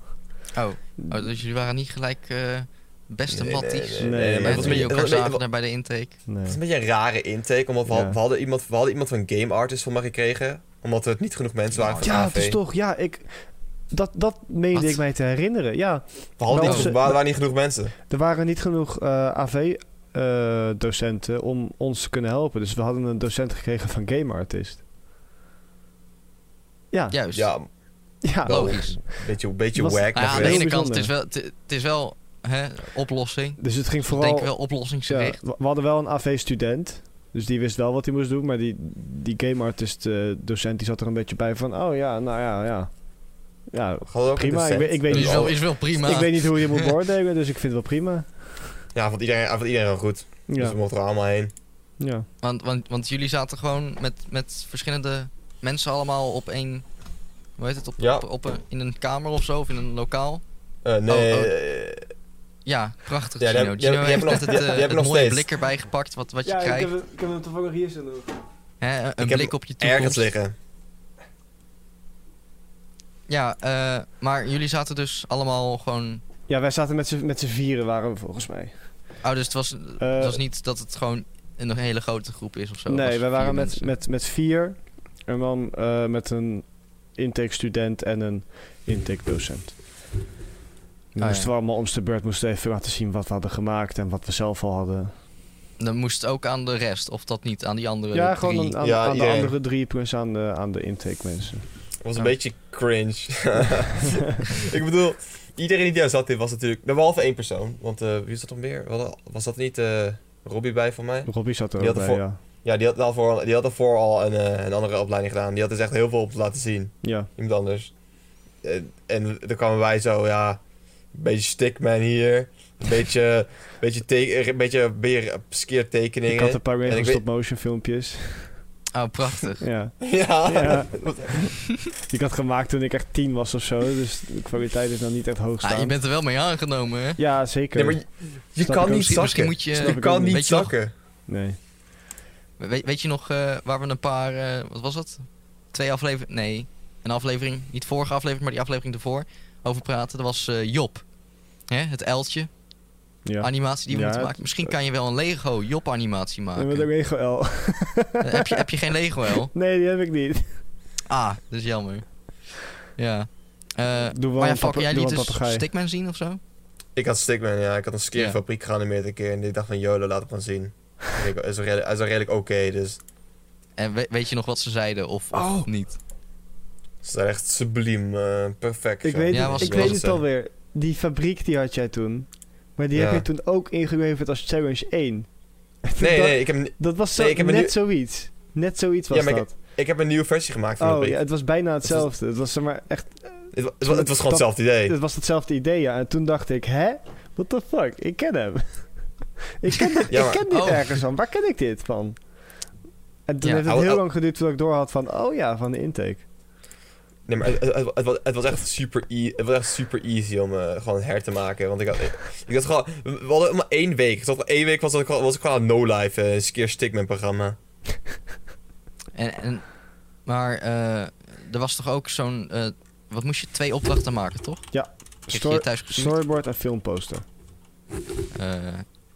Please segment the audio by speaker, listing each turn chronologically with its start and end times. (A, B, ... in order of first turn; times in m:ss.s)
0:00.5-0:06.2 A
0:03.3-0:05.4 B
0:04.0-0:04.9 C
0:06.3-0:06.6 C
0:06.4-0:12.6 B
0:07.9-0:08.2 C
0:11.7-0:12.2 A
0:12.0-0:17.2 C
0:14.7-0:15.0 A
0:16.4-0:17.9 B
0:16.6-0:16.9 A
0:18.1-0:24.8 C
0:26.9-0:27.2 C
0:27.1-0:27.5 A
0:27.3-0:27.7 B
0:28.2-0:29.0 C
0:28.3-0:30.6 B
0:28.4-0:29.0 A
0:29.7-0:31.1 C
0:30.1-0:35.4 A
0:33.6-0:42.9 C
0:43.7-0:48.8 C
0:44.1-0:45.6 B
0:45.1-0:46.9 A
0:48.9-0:51.5 B
0:50.5-0:50.8 C
0:52.0-0:52.3 C
0:52.4-0:56.8 A
0:57.6-1:00.4 A
0:58.0-0:58.2 B
1:00.8-1:02.0 B
1:01.1-1:01.5 A
1:02.6-1:06.9 A
1:03.4-1:05.5 B
1:06.4-1:08.4 C
1:08.8-1:10.3 A
1:09.2-1:10.5 B
1:13.3-1:16.2 A
1:16.5-1:18.8 C
1:19.2-1:23.9 A
1:20.0-1:20.4 C
1:22.9-1:29.8 C
1:31.1-1:35.1 C
1:31.2-1:31.5 A
1:35.8-1:38.8 A
1:38.1-1:41.6 C
1:38.8-1:39.5 B
1:42.0-1:57.9 B
1:51.2-1:52.4 C
1:57.0-1:57.3 C
1:58.6-2:00.6 B
2:01.1-2:07.2 B
2:06.3-2:08.6 C
2:08.9-2:09.7 A
2:09.6-2:11.5 C
2:10.0-2:11.5 B
2:12.0-2:16.0 C
2:15.6-2:17.2 A
2:17.2-2:18.0 C
2:17.7-2:20.9 B
2:18.6-2:20.4 C
2:18.9-2:20.7 A
2:21.3-2:21.6 C
2:22.6-2:31.0 A
2:31.7-2:32.5 A
2:33.2-2:34.7 C
2:33.4-2:36.9 A
2:36.6-2:38.6 C
2:38.2-2:39.5 A
2:39.3-2:40.6 C
2:41.1-2:42.1 A
2:42.8-2:46.4 A
2:44.1-2:45.6 C
2:47.0-2:53.0 B
2:48.1-2:48.4 A
2:53.8-2:56.0 A
2:55.3-2:55.7 C
2:57.0-3:00.2 B
2:59.0-3:05.3 C
2:59.3-3:00.0 A
3:02.9-3:03.2 B
3:05.8-3:09.5 C
3:06.0-3:07.7 B
3:09.1-3:11.3 B
3:10.8-3:22.2 C
3:13.5-3:14.9 B
3:20.1-3:20.4 B
3:20.5-3:20.8 A
3:23.3-3:26.2 C
3:23.4-3:23.7 A
3:23.6-3:24.0 B
3:27.3-3:37.6 B
3:39.1-3:44.7 A
3:44.7-3:47.2 C
3:45.3-3:46.2 A
3:48.3-3:48.8 A